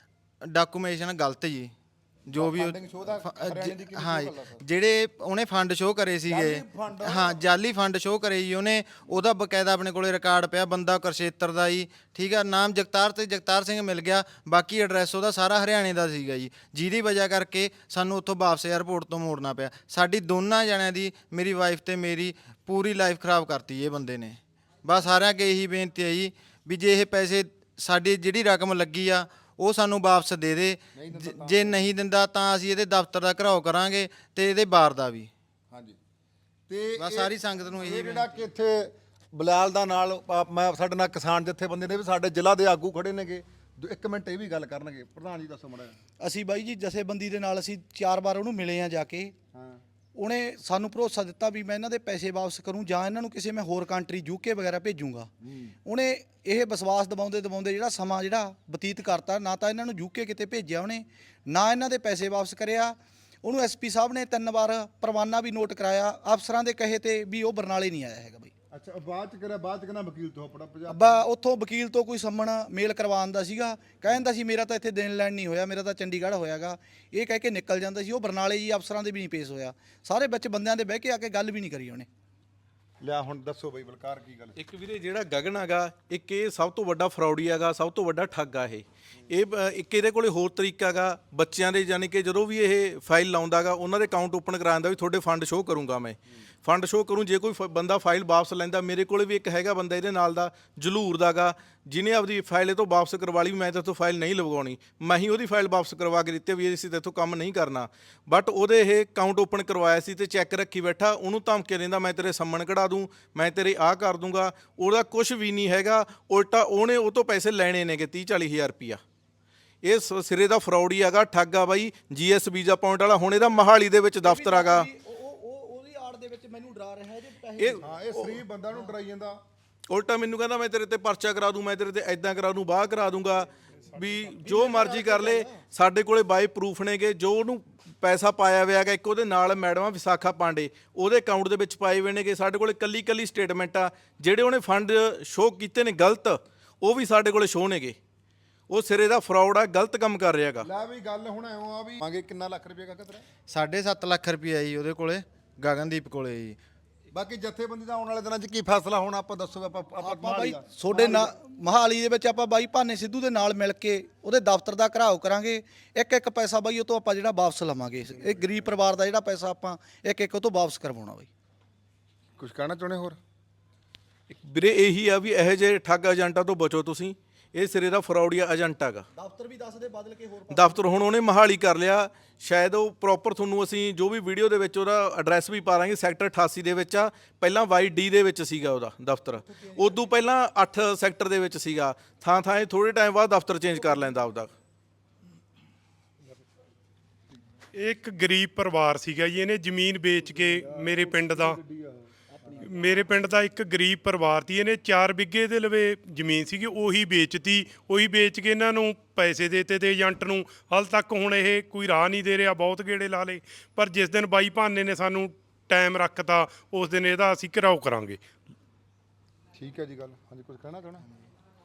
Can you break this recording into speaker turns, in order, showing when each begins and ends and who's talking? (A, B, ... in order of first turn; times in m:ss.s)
0:00.5-0:01.7 A
0:02.3-0:35.3 A
0:02.3-0:04.6 B
0:06.3-0:07.4 B
0:31.0-0:31.8 B
0:36.7-0:46.0 B
0:37.0-0:38.3 A
0:46.2-0:49.3 C
0:49.5-0:49.8 B
0:50.1-0:55.3 C
0:55.4-0:55.7 B
0:55.8-1:08.5 C
1:08.7-1:11.2 B
1:10.9-1:22.1 C
1:23.0-1:24.6 B
1:24.6-1:59.0 D
1:59.8-2:04.9 D
2:04.2-2:07.8 C
2:07.6-2:08.4 D
2:07.8-2:09.4 B
2:09.9-2:28.0 D
2:14.5-2:15.5 B
2:28.7-2:30.7 D
2:30.6-2:33.2 B
2:33.5-2:36.6 A
2:37.1-2:41.3 B
2:40.0-2:51.3 C
2:52.4-2:53.2 B
2:54.3-2:59.0 D
2:59.1-3:00.9 C
3:00.5-3:14.5 D
3:17.7-3:21.6 E
3:20.2-3:23.0 B
3:22.6-3:38.2 E
3:39.6-3:41.0 B